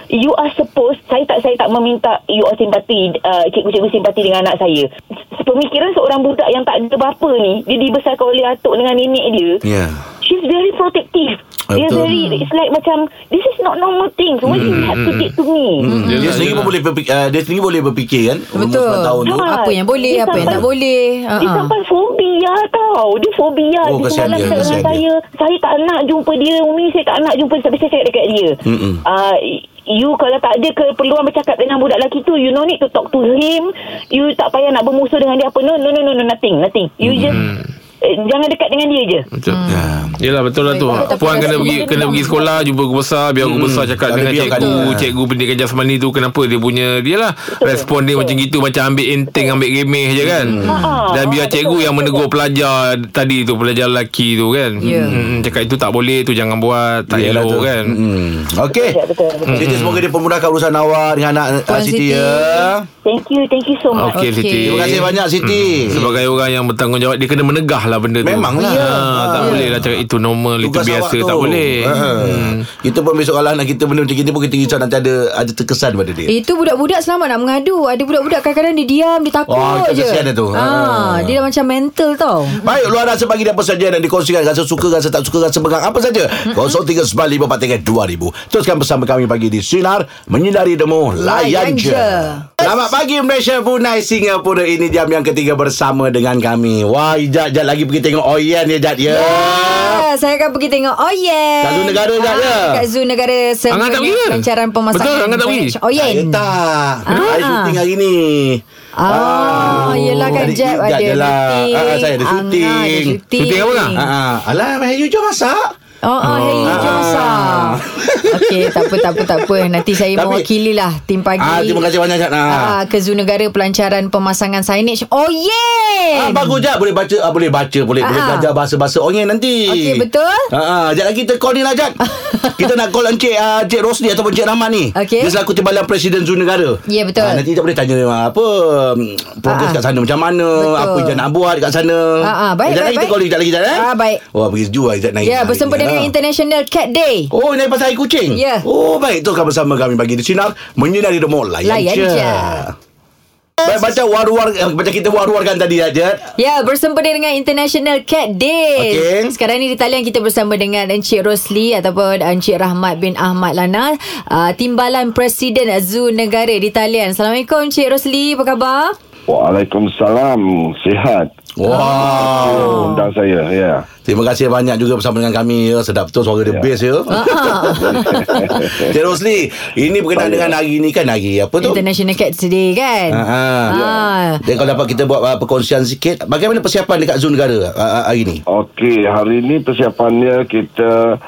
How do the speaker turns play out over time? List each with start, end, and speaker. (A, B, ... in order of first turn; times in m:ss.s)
0:00.1-0:09.6 A
0:09.6-0:10.0 B
0:10.2-0:15.9 A
0:11.7-0:12.1 B
0:12.0-0:12.5 C
0:14.4-0:14.9 B
0:14.5-0:15.3 D
0:15.8-0:19.5 B
0:15.9-0:16.6 C
0:16.0-0:16.7 D
0:18.5-0:21.7 C
0:19.2-0:20.6 A
0:20.3-0:20.6 B
0:21.4-0:37.4 A
0:23.8-0:25.0 B
0:24.2-0:24.8 C
0:28.6-0:29.0 B
0:37.0-0:37.4 B
0:37.3-0:37.7 D
0:38.0-0:39.2 A
0:39.3-0:39.6 D
0:39.5-0:40.1 C
0:39.7-0:40.2 B
0:40.2-0:58.0 D
0:40.6-0:42.4 C
0:40.9-0:42.7 A
0:43.4-0:45.1 B
0:44.5-0:44.9 C
0:47.6-0:48.4 A
0:49.3-0:49.6 A
0:50.2-0:50.9 B
0:50.6-0:52.2 A
0:50.6-0:50.9 C
0:54.8-0:55.2 C
0:54.8-0:55.4 B
0:57.1-0:58.9 B
0:58.7-0:59.7 A
0:59.5-1:00.0 D
0:59.5-1:02.8 B
1:01.7-1:02.7 C
1:03.0-1:04.2 A
1:03.9-1:12.6 D
1:04.1-1:05.1 C
1:04.6-1:06.1 B
1:08.2-1:10.0 B
1:09.4-1:09.7 C
1:10.6-1:16.3 B
1:16.3-1:22.6 C
1:19.5-1:21.4 B
1:22.5-1:40.1 B
1:26.5-1:26.8 C
1:31.2-1:32.8 C
1:39.1-1:46.5 C
1:41.6-1:42.8 B
1:43.7-1:45.7 D
1:45.9-1:53.2 B
1:47.0-1:47.8 C
1:49.0-1:54.1 C
1:49.5-1:50.5 D
1:53.4-1:54.0 D
1:53.9-1:55.7 B
1:56.0-1:57.8 C
1:56.2-1:57.1 D
1:56.6-2:00.5 B
1:58.3-2:01.8 C
2:01.4-2:02.8 B
2:02.5-2:06.6 C
2:06.1-2:12.0 B
2:08.0-2:08.5 C
2:09.7-2:10.5 C
2:12.0-2:12.7 C
2:12.6-2:26.1 B
2:14.9-2:15.3 C
2:16.9-2:17.4 C
2:19.5-2:19.8 C
2:20.5-2:21.2 C
2:22.2-2:23.2 C
2:23.7-2:24.2 C
2:25.2-2:27.3 C
2:27.3-2:32.7 B
2:28.3-2:28.6 C
2:31.6-2:32.6 C
2:33.6-2:36.3 B
2:36.4-2:49.0 C
2:38.8-2:39.3 B
2:49.3-2:51.3 E
2:51.6-2:52.9 B
2:51.6-2:53.1 C
2:52.0-2:53.8 E
2:54.0-3:01.8 B
2:56.4-2:56.7 E
2:57.1-2:58.3 C
2:57.8-2:59.0 E
3:00.2-3:00.5 E
3:01.6-3:04.4 C
3:03.1-3:03.8 B
3:03.7-3:04.1 E
3:04.4-3:08.4 B
3:08.5-3:11.0 E